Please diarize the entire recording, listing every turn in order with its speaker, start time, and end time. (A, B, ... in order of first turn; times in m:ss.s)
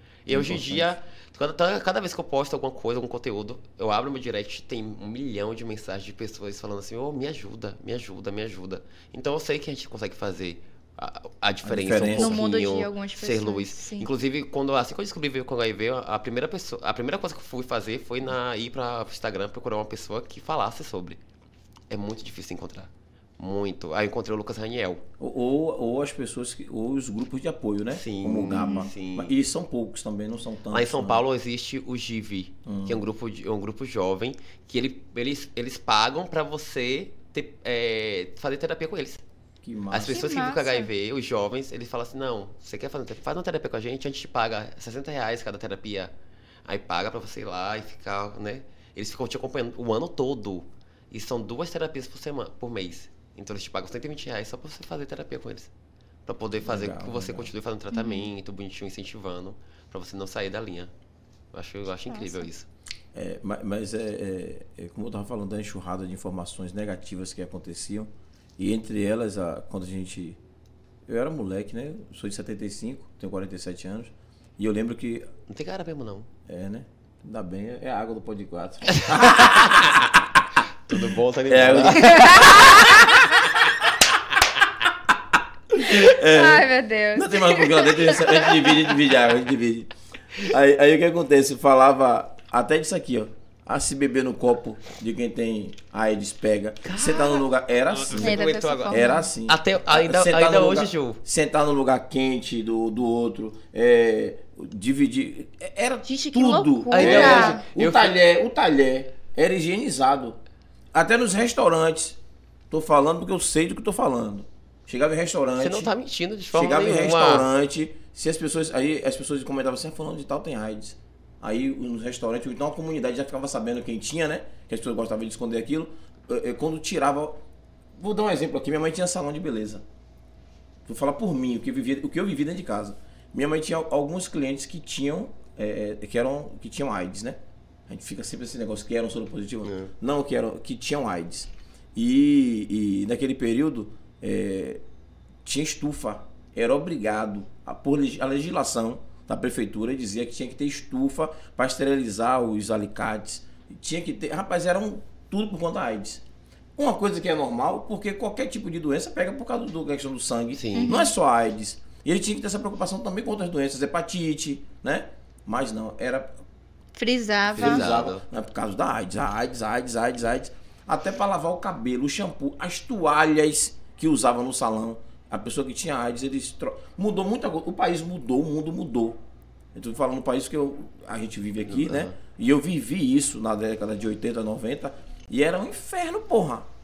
0:00.2-0:21.2 A
0:00.3-0:00.9 B
0:11.6-0:12.4 B
0:12.2-0:14.1 C
0:21.9-0:25.0 A
0:25.2-0:31.2 B
0:27.9-0:29.4 A
0:28.5-0:28.9 C
0:30.7-0:39.2 A
0:32.6-0:33.0 B
0:39.6-0:40.2 B
0:39.9-0:46.1 A
0:40.0-0:40.9 C
0:46.6-0:55.7 A
0:56.2-1:00.9 A
0:56.6-0:57.5 B
0:57.9-0:58.3 C
1:01.5-1:02.7 A
1:02.1-1:02.5 C
1:03.1-1:10.4 B
1:11.1-1:15.3 B
1:15.5-1:16.3 A
1:16.5-1:20.2 B
1:19.3-1:19.9 A
1:20.8-1:22.9 A
1:20.9-1:23.1 B
1:22.1-1:22.9 C
1:25.7-1:50.4 B
1:25.8-1:28.6 C
1:36.8-1:41.2 A
1:38.2-1:39.3 C
1:46.0-1:47.6 C
1:46.9-1:48.2 A
1:50.9-1:52.2 B
1:52.7-1:55.9 B
1:55.6-1:57.5 A
1:56.5-2:07.4 B
2:08.0-2:09.8 B
2:10.8-2:24.8 B
2:19.6-2:19.9 A
2:25.4-2:36.2 B
2:36.8-2:46.3 B
2:40.5-2:41.0 A
2:40.8-2:41.1 C
2:47.0-2:47.8 C
2:47.5-2:48.2 A
2:47.5-2:59.2 B
2:59.7-3:06.7 B
3:01.7-3:02.2 A